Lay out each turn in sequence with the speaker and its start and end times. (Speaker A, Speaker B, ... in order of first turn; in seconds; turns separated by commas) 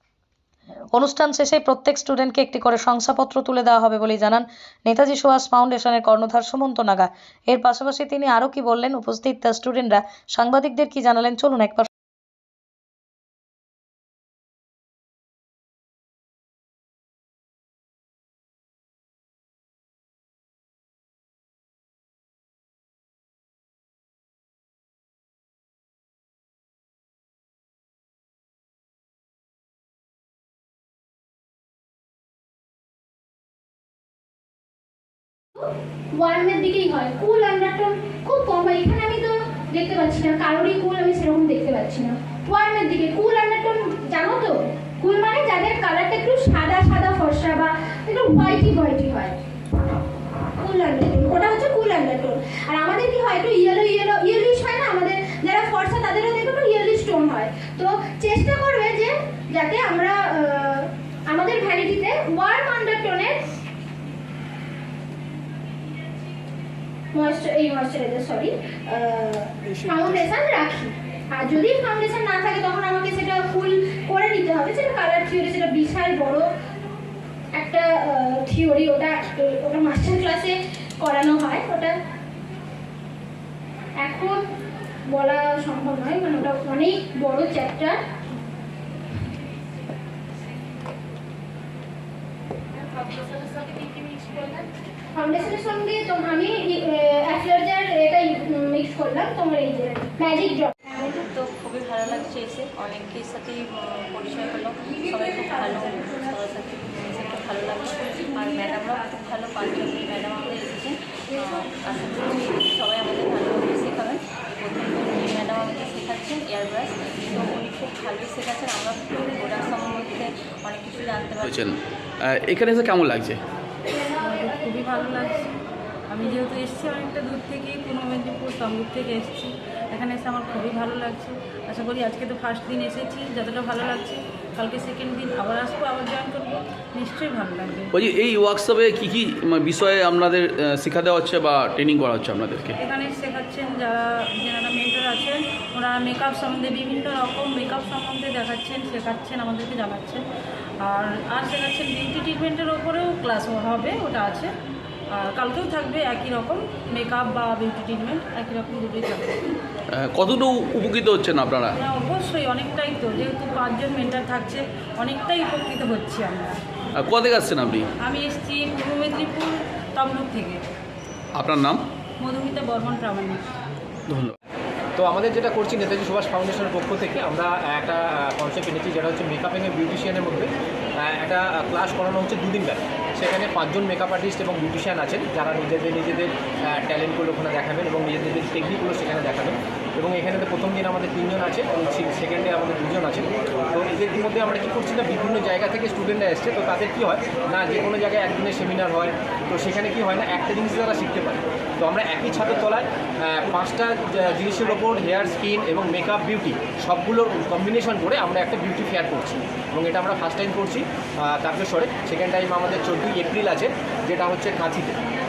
Speaker A: 0.9-11.9, Speaker B: 35.5-49.4, Speaker B: 50.6-63.4, Speaker B: 67.1-76.5, Speaker B: 77.5-81.9, Speaker B: 84.0-84.4, Speaker B: 85.1-88.0, Speaker B: 95.2-100.7, Speaker C: 100.9-121.5, Speaker D: 121.4-123.4, Speaker E: 124.2-125.4, Speaker E: 126.1-137.9, Speaker D: 137.9-142.8, Speaker E: 142.8-150.2, Speaker E: 150.8-154.5, Speaker E: 155.1-159.4, Speaker D: 159.9-161.7, Speaker E: 161.8-166.6, Speaker D: 167.0-167.9, Speaker E: 168.1-170.6, Speaker D: 171.4-171.8, Speaker E: 172.2-173.4, Speaker D: 174.1-174.3, Speaker F: 175.0-180.5, Speaker F: 181.0-215.0